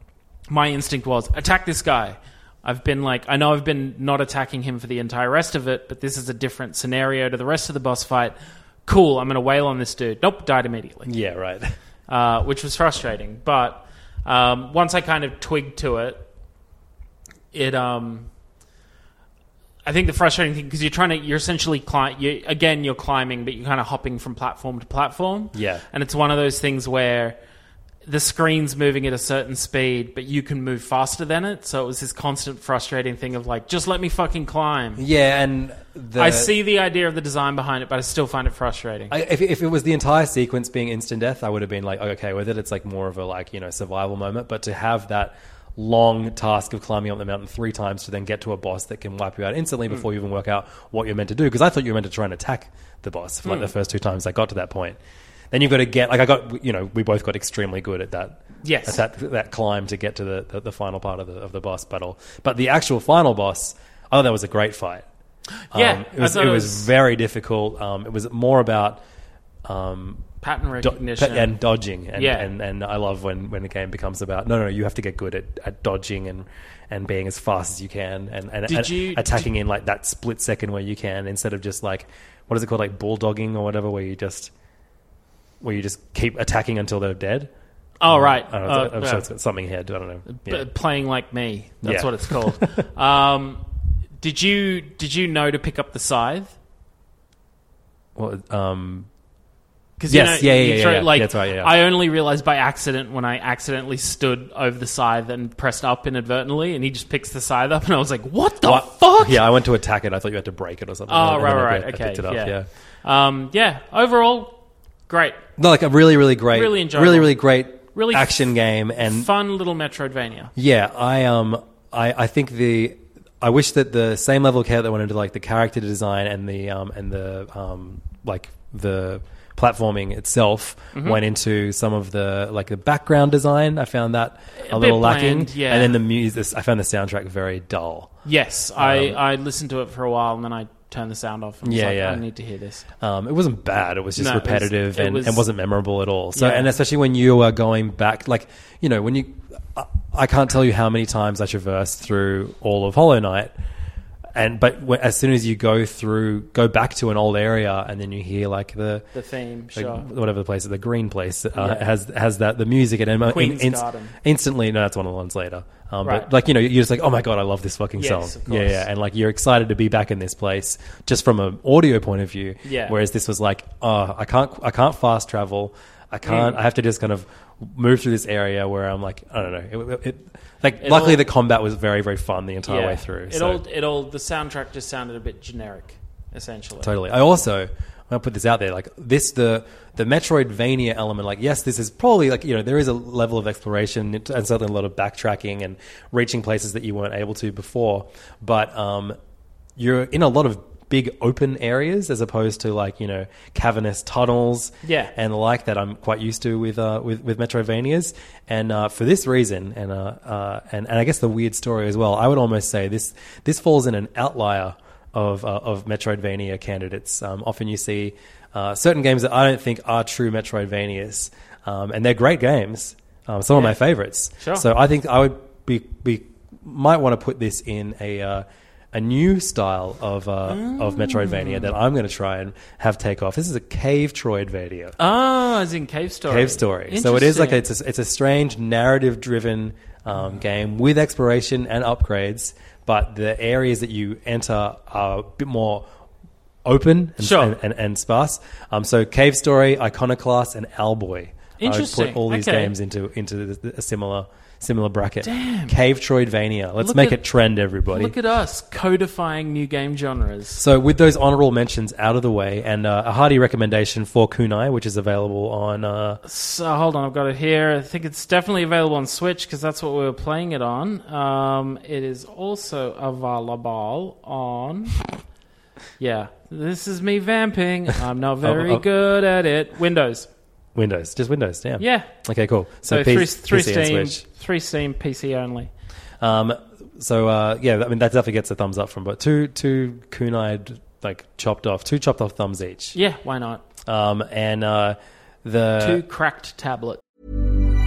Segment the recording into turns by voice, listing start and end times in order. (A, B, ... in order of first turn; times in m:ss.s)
0:00.5-0:11.1 A
0:11.0-0:11.8 B
0:12.1-0:16.3 A
0:17.5-0:18.3 A
0:19.8-0:27.4 A
0:25.5-0:25.8 B
0:28.0-0:35.0 A
0:35.0-0:36.5 B
0:36.2-0:39.1 A
0:39.1-0:55.0 B
0:53.4-0:53.7 A
0:55.5-1:05.0 B
0:58.6-0:59.0 A
1:05.7-1:06.9 A
1:05.7-1:09.0 B
1:09.6-1:10.3 B
1:10.4-1:11.6 A
1:10.8-1:24.5 B
1:12.1-1:12.5 A
1:18.7-1:19.5 A
1:25.6-1:27.5 B
1:28.0-1:29.3 A
1:28.1-1:30.7 B
1:30.3-1:33.6 A
1:31.8-1:32.9 B
1:34.2-1:36.5 A
1:38.2-1:39.1 B
1:40.0-1:49.4 A
1:40.1-1:41.8 B
1:48.6-1:52.7 B
1:51.1-1:55.4 A
1:55.6-1:59.3 B
1:56.5-2:00.5 A
2:00.6-2:18.2 B
2:10.9-2:11.2 A
2:14.6-2:16.0 A
2:18.2-2:22.9 A
2:18.8-2:19.2 B
2:21.6-2:22.2 B
2:23.0-2:33.6 B
2:24.2-2:25.4 A
2:26.4-2:26.7 A
2:34.3-2:39.1 B
2:39.1-2:40.1 A
2:39.7-3:03.6 B
2:41.6-2:41.9 A
2:43.2-2:44.2 A
2:46.0-2:46.3 A
2:48.0-2:48.9 A
2:52.6-2:53.0 A
2:56.2-2:56.6 A
3:00.8-3:01.2 A
3:02.6-3:06.9 A
3:06.8-3:19.2 B
3:19.8-3:55.0 B
3:24.8-3:25.1 A
3:43.5-3:43.8 A
3:44.4-3:44.7 A
3:50.5-3:51.8 A
3:55.0-3:57.6 A
3:56.3-4:05.9 B
4:06.6-4:18.1 B
4:07.2-4:07.6 A
4:11.6-4:12.7 A
4:15.2-4:15.8 A
4:16.8-4:17.2 A
4:17.9-4:20.6 A
4:20.6-4:26.2 B
4:26.2-4:35.0 A
4:36.0-4:40.3 A
4:38.4-4:38.8 B
4:40.8-4:44.2 B
4:41.8-4:42.1 A
4:42.8-4:45.7 A
4:46.2-4:53.0 B
4:52.9-4:53.6 A
4:53.9-4:56.0 B
4:55.8-4:57.0 A